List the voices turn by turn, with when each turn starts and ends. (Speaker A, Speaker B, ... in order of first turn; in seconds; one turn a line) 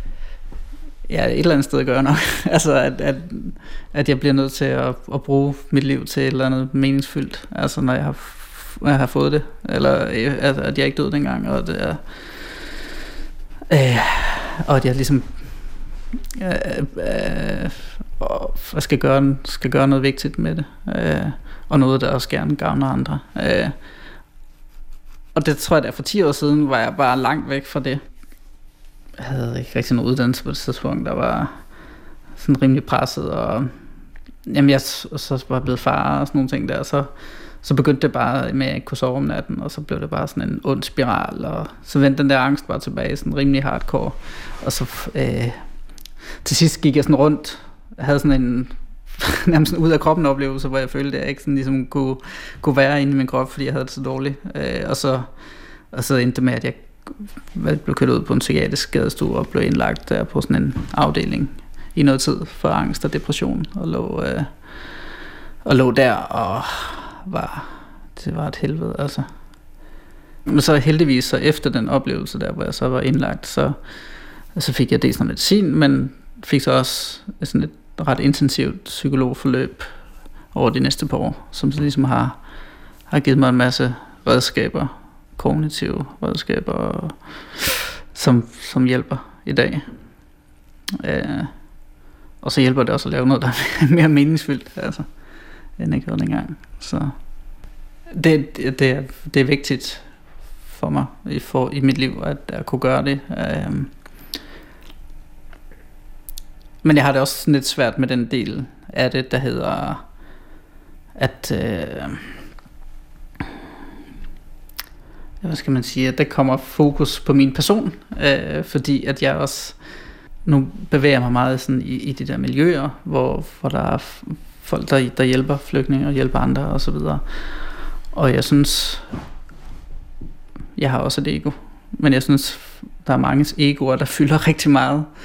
Speaker A: 1.1-12.7
Speaker A: 13.7-15.8
Speaker A: 16.4-23.8
Speaker A: 25.3-28.0
Speaker A: 29.2-31.6
Speaker A: 32.4-33.7
Speaker A: 34.5-37.1
Speaker A: 37.6-45.7
Speaker A: 46.4-55.3
Speaker A: 55.9-64.9
Speaker A: 65.6-69.3
Speaker A: 70.5-73.8
Speaker A: 74.5-82.5
Speaker A: 83.1-90.2
Speaker A: 91.0-91.8
Speaker A: 92.4-97.4
Speaker A: 98.1-104.0
Speaker A: 106.8-110.0
Speaker A: 111.2-112.4
Speaker A: 115.4-119.8
Speaker A: 120.4-129.1
Speaker A: 130.8-135.1